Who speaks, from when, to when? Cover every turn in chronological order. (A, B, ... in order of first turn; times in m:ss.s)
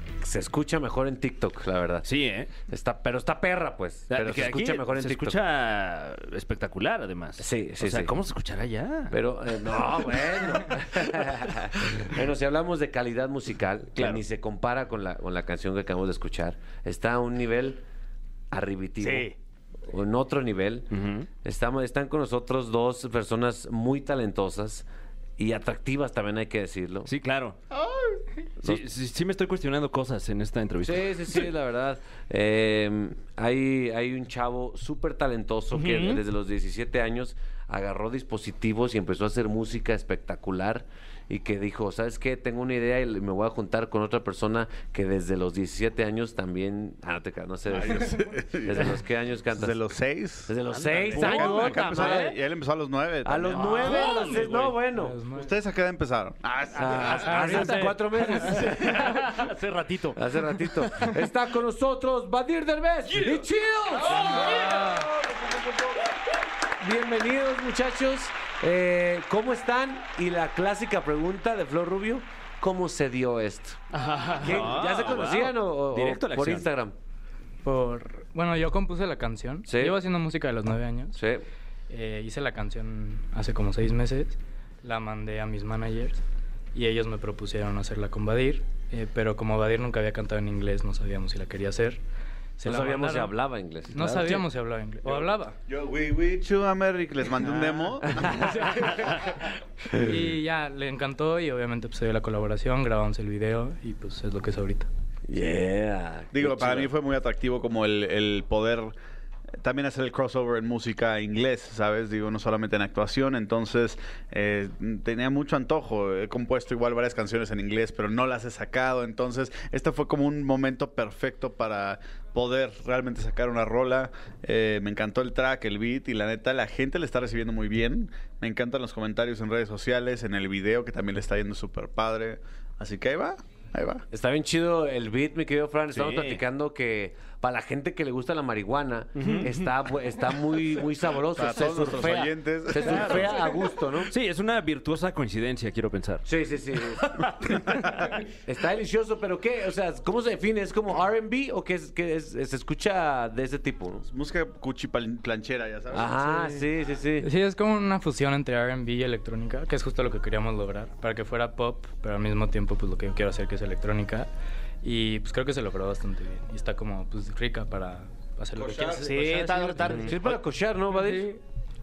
0:00.2-0:02.1 A
0:02.0-0:02.5 B
0:02.7-0:05.4 A
0:04.1-0:09.1 B
0:07.4-0:08.2 A
0:09.1-0:17.8 A
0:18.5-0:19.3 A
0:19.0-0:19.4 C
0:19.9-0:24.9 A
0:20.9-0:21.3 B
0:25.4-0:27.1 A
0:27.1-0:27.6 B
0:27.8-0:28.2 D
0:28.6-0:31.4 B
0:30.8-0:49.8 A
0:35.7-0:36.2 C
0:47.7-0:49.0 D
0:49.5-0:54.2 D
0:50.5-0:52.4 A
0:50.9-0:52.0 B
0:51.9-0:52.2 C
0:53.2-0:55.2 A
0:53.5-0:54.5 C
0:54.8-0:55.5 E
0:55.3-0:57.0 D
0:56.6-1:00.2 C
0:56.7-0:59.4 A
0:57.3-0:57.9 E
1:00.1-1:06.0 A
1:04.1-1:04.6 C
1:04.2-1:05.1 E
1:06.8-1:13.8 A
1:13.9-1:15.1 C
1:14.0-1:16.7 B
1:14.4-1:17.0 A
1:17.6-1:21.2 E
1:19.7-1:20.0 A
1:21.2-1:21.4 A
1:21.9-1:26.2 E
1:26.8-1:32.0 E
1:32.6-1:33.4 E
1:32.6-1:34.5 A
1:33.9-1:35.6 E
1:35.1-1:39.2 D
1:38.1-1:38.7 A
1:38.8-1:39.1 E
1:39.9-1:40.2 A
1:39.9-1:44.9 E
1:45.3-1:46.9 A
1:46.3-1:48.9 D
1:49.6-2:14.0 D
2:14.1-2:24.1 A
2:15.9-2:16.4 B
2:19.2-2:19.6 B
2:21.3-2:23.5 D
2:22.9-2:23.2 B
2:24.1-2:26.2 B
2:26.2-2:27.2 A
2:27.4-2:28.0 D
2:28.3-2:34.1 A
2:34.1-2:36.6 D
2:35.9-2:37.3 A
2:37.2-2:44.3 E
2:44.8-2:50.1 E
2:48.6-2:49.7 D
2:49.0-2:50.4 C
2:49.9-2:50.1 B
2:50.0-2:51.3 A
2:50.9-2:51.4 E